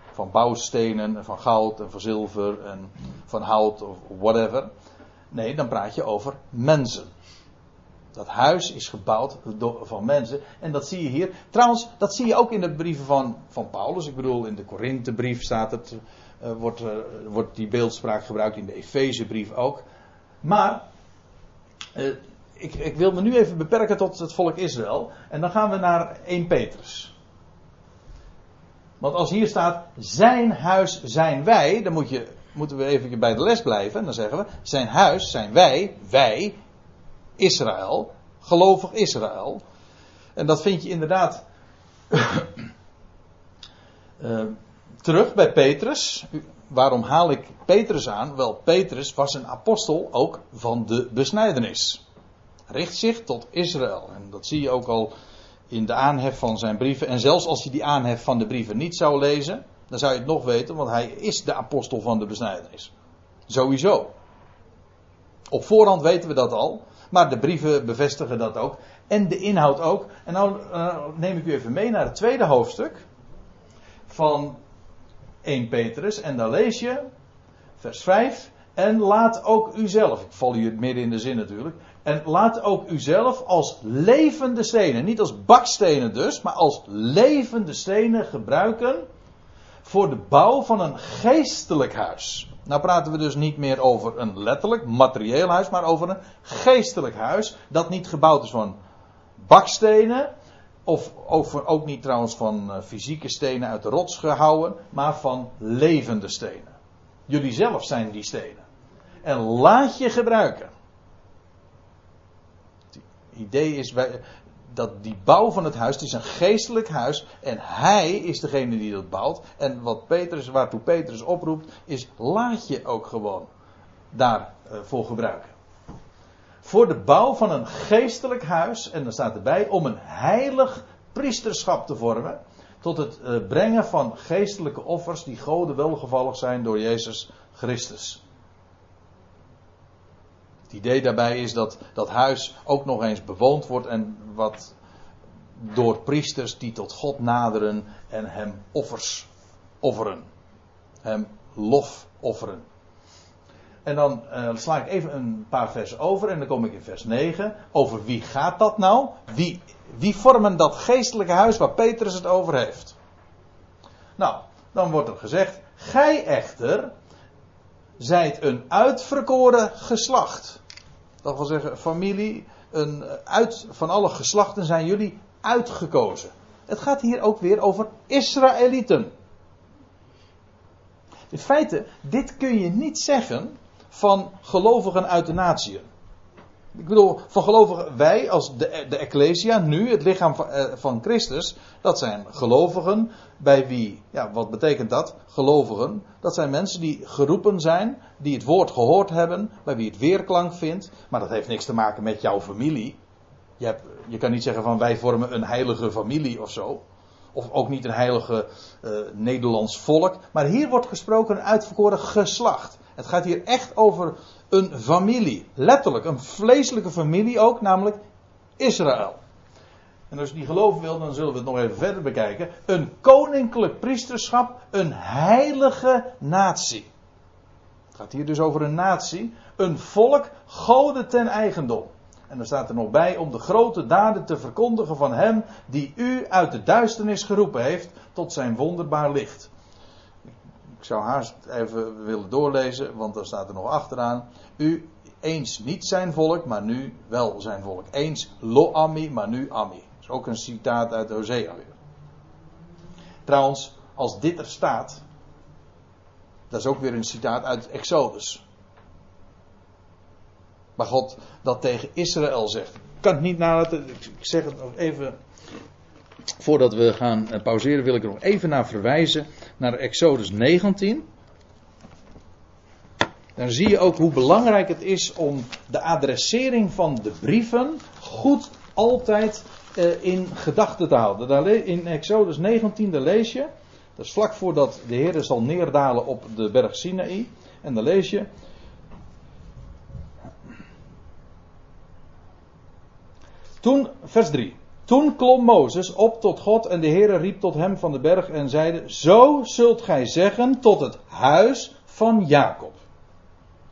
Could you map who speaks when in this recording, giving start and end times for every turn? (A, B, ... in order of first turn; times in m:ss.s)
0:00.2-0:04.7 A
0:05.3-0:07.1 A
0:08.1-0:19.8 A
0:20.4-0:20.8 A
0:22.0-0:27.1 A
0:29.0-0:36.6 A
0:37.4-0:39.6 A
0:40.4-0:41.4 A
0:42.1-0:42.6 A
0:44.2-0:52.0 A
0:52.7-0:55.1 A
0:55.7-1:02.9 A
1:03.5-1:04.1 A
1:05.5-1:13.0 A
1:14.1-1:14.6 A
1:15.4-1:17.1 A
1:17.8-1:29.0 A
1:29.8-1:38.8 A
1:39.4-1:40.3 A
1:40.9-1:46.8 A
1:47.3-1:48.6 A
1:49.2-1:50.7 A
1:52.9-2:03.5 A
2:04.1-2:05.5 A
2:06.6-2:18.2 A
2:20.7-2:24.7 A
2:25.6-2:29.3 A
2:29.8-2:30.3 A
2:31.0-2:32.6 A
2:33.8-2:43.0 A
2:44.2-2:46.9 A
2:48.0-2:50.6 A
2:51.2-2:59.1 A
3:01.3-3:05.9 A
3:06.8-3:23.0 A
3:23.6-3:26.8 A
3:27.3-3:38.0 A
3:38.6-3:39.2 A
3:40.1-3:46.9 A
3:48.0-3:59.5 A
4:00.8-4:11.8 A
4:13.3-4:15.0 A
4:16.5-4:18.4 A
4:20.8-4:25.2 A
4:26.4-4:31.0 A
4:33.4-4:48.3 A
4:53.6-5:02.8 A